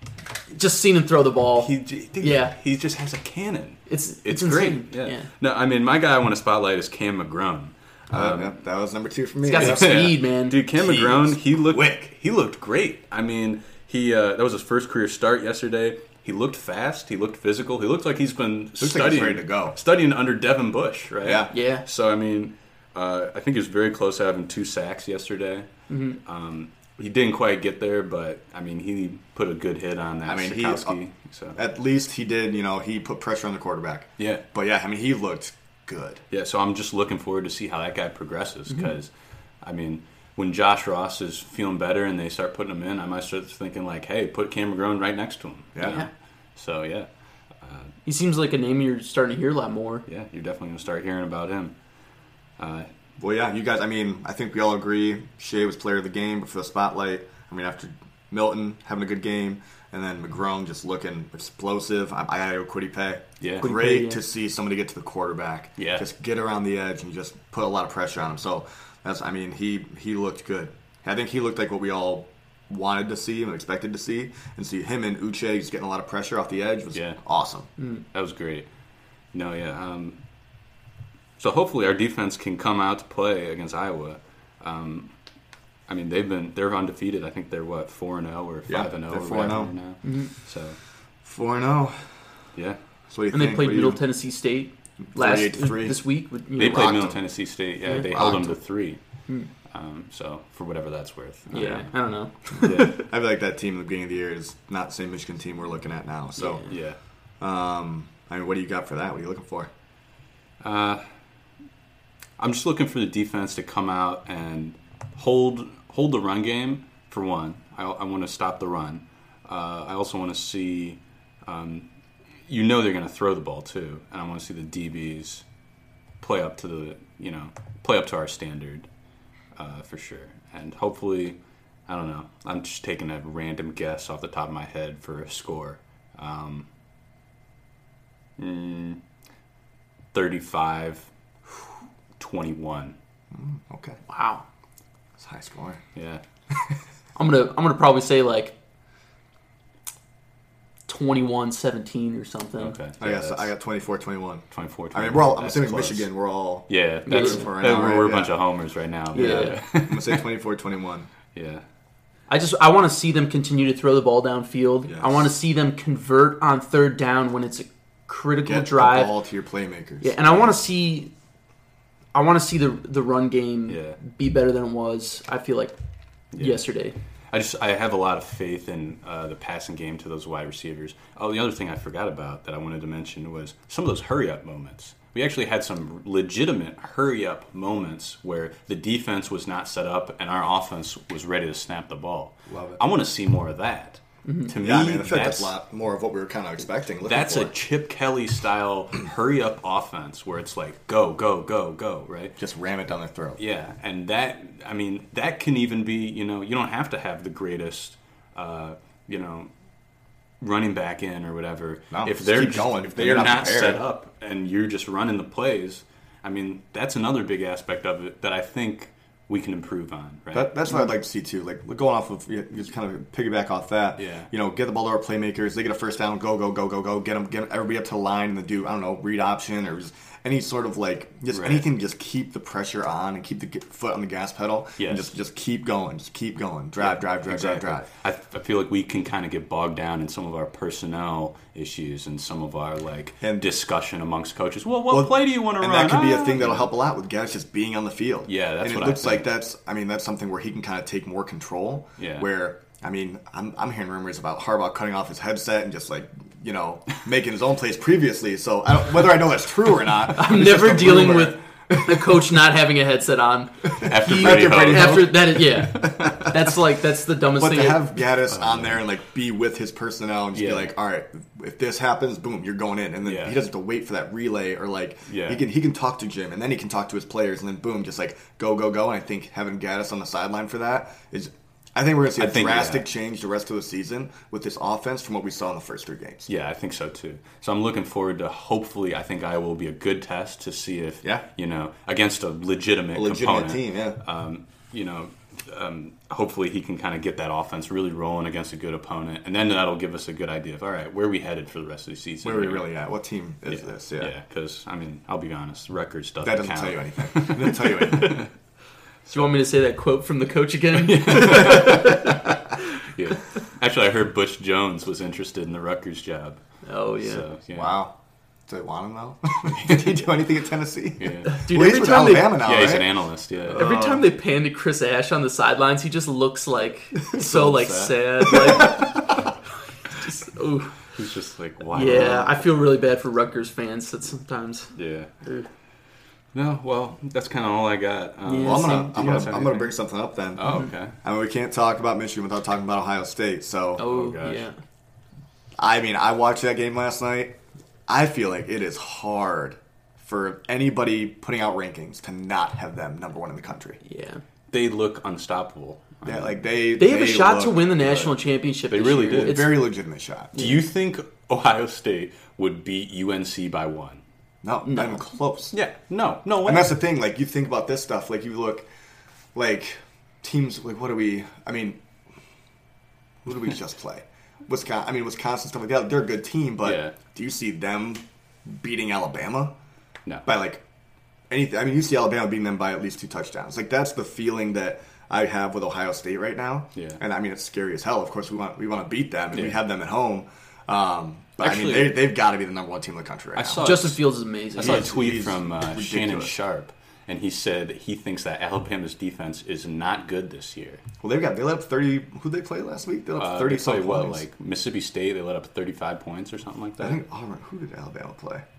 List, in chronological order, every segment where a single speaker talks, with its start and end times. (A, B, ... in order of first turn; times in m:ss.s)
0:00.5-0:01.7 A
0:01.6-0:08.5 B
0:02.2-0:02.5 A
0:03.9-0:05.3 A
0:08.1-0:10.1 C
0:09.4-0:10.6 A
0:09.6-0:25.7 B
0:10.7-0:12.1 C
0:18.8-0:19.8 C
0:21.2-0:21.5 C
0:21.5-0:21.8 A
0:25.9-0:26.2 A
0:26.2-0:31.6 B
0:30.3-0:31.0 C
0:31.6-0:36.2 C
0:36.3-0:39.1 B
0:39.6-0:47.1 B
0:45.8-0:46.0 C
0:47.6-0:47.9 B
0:48.0-0:50.0 A
0:50.1-0:51.7 B
0:52.6-0:52.9 B
0:53.2-1:17.7 C
1:03.4-1:03.7 B
1:03.6-1:04.2 A
1:05.8-1:06.0 B
1:18.1-1:18.7 B
1:19.3-1:20.2 B
1:21.4-1:25.1 B
1:25.9-1:30.8 B
1:28.7-1:29.7 C
1:30.0-1:30.3 A
1:31.2-1:32.2 C
1:33.1-1:34.0 C
1:33.3-1:37.1 A
1:35.1-1:36.0 C
1:36.6-1:39.0 B
1:36.6-1:37.2 C
1:38.1-1:38.5 C
1:39.7-1:41.8 B
1:41.5-1:43.0 A
1:42.5-1:46.6 C
1:42.6-1:42.9 B
1:46.4-1:46.6 A
1:46.6-1:47.0 B
1:47.4-1:49.7 C
1:50.6-1:51.0 B
1:52.4-2:01.8 B
2:02.5-2:05.4 B
2:06.2-2:08.9 B
2:09.6-2:16.7 B
2:18.4-2:19.0 B
2:20.1-2:21.0 B
2:22.2-2:23.0 B
2:23.3-2:24.0 C
2:24.1-2:24.4 A
2:25.2-2:25.8 C
2:26.0-2:26.2 B
2:26.5-2:26.8 C
2:27.2-2:28.5 A
2:30.9-2:32.8 A
2:32.6-2:33.5 B
2:33.0-2:38.4 C
2:34.5-2:36.1 B
2:36.7-2:40.3 B
2:37.1-2:37.5 A
2:39.1-2:39.6 A
2:39.2-2:41.1 C
2:41.3-2:41.6 B
2:42.3-2:49.1 A
2:44.9-2:45.3 C
2:48.4-2:50.2 C
2:50.0-2:51.1 A
2:52.1-2:55.8 A
2:53.7-2:54.0 B
2:56.3-2:56.6 B
2:56.4-2:57.0 A
2:57.3-3:15.5 B
3:12.5-3:12.8 C
3:14.6-3:17.5 C
3:17.0-3:22.3 B
3:22.4-3:23.4 C
3:23.4-3:29.5 B
3:30.4-3:40.5 B
3:31.9-3:33.8 C
3:40.3-3:57.9 C
3:44.0-3:44.3 B
3:51.3-3:51.6 B
3:54.8-3:55.1 B
3:56.8-4:06.7 B
4:04.9-4:22.2 C
4:08.3-4:09.3 B
4:12.0-4:12.3 B
4:20.1-4:28.0 A
4:23.7-4:26.5 C
4:23.8-4:26.2 B
4:27.4-4:46.3 C
4:28.3-4:28.8 B
4:30.3-4:30.7 B
4:33.0-4:33.4 B
4:35.1-4:35.4 B
4:42.2-4:42.8 B
4:46.3-5:02.7 B
4:52.9-4:54.0 C
5:02.2-5:04.1 C
5:03.5-5:08.3 B
5:06.2-5:08.2 C
5:09.1-5:12.2 A
5:10.8-5:16.4 B
5:16.6-5:17.2 A
5:17.0-5:17.7 B
5:17.5-5:18.0 C
5:18.5-5:22.9 C
5:19.5-5:19.9 B
5:21.0-5:21.4 B
5:21.2-5:22.4 A
5:22.4-5:23.7 B
5:23.4-5:24.1 C
5:23.6-5:29.2 A
5:27.1-5:28.4 B
5:29.9-5:30.9 A
5:30.9-5:32.5 B
5:31.7-5:34.7 A
5:34.8-5:35.1 B
5:36.3-5:39.8 B
5:38.3-5:39.0 A
5:38.4-5:43.9 C
5:40.4-5:41.0 B
5:43.8-5:44.5 A
5:43.8-5:44.4 B
5:45.6-5:47.4 C
5:47.9-5:53.8 C
5:53.8-5:54.2 A
5:54.5-5:56.4 B
5:56.0-5:57.8 C
5:56.8-5:59.7 A
5:57.8-5:58.1 B
5:58.7-5:59.6 B
5:59.1-6:00.6 C
6:00.4-6:04.0 B
6:04.4-6:05.6 C
6:04.7-6:05.0 A
6:05.5-6:06.7 B
6:06.4-6:08.7 C
6:09.4-6:11.8 C
6:13.2-6:19.5 C
6:16.6-6:17.0 B
6:20.3-6:20.6 C
6:21.3-6:33.8 C
6:29.3-6:29.6 B
6:31.4-6:32.0 B
6:33.4-6:34.0 B
6:33.6-6:34.9 A
6:34.6-6:40.8 B
6:34.6-6:36.4 C
6:41.0-6:44.2 C
6:43.2-6:47.0 B
6:46.8-6:48.4 C